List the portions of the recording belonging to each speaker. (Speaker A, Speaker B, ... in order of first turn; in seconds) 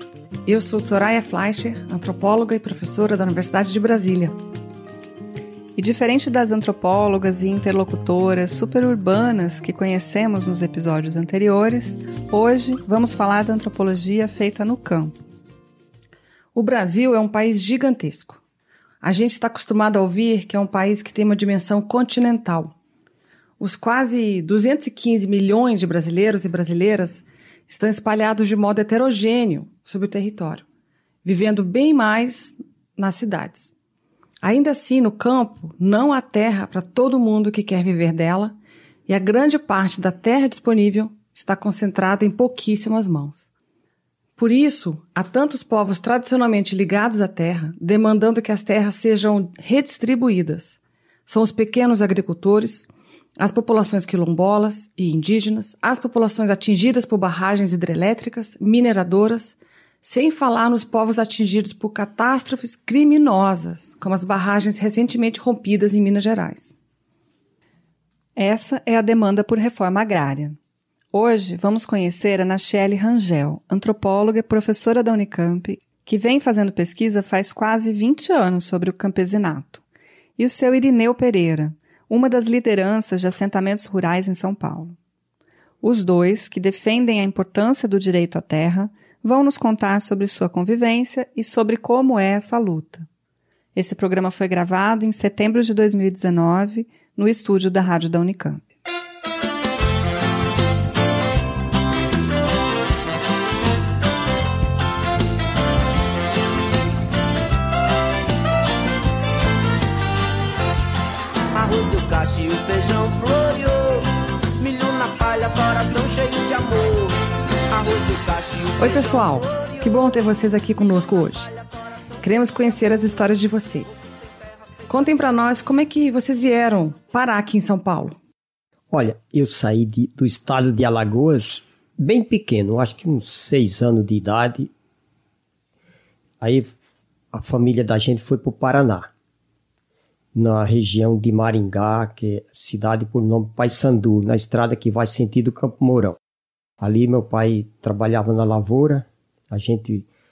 Speaker A: 0.5-4.3, 16.5-18.4, 19.0-22.7, 23.6-30.6, 31.2-33.7, 34.4-38.5, 39.1-43.5, 44.4-66.7, 118.8-121.5, 122.2-124.0, 124.9-128.2
Speaker B: 5.8-15.1, 68.3-70.6, 71.1-79.8, 80.4-85.0, 85.8-93.1, 93.7-98.6
Speaker C: 111.5-114.0, 114.6-117.2, 117.7-119.8
Speaker D: 128.9-134.7, 136.4-136.7, 137.3-139.1, 140.3-146.2, 146.8-150.1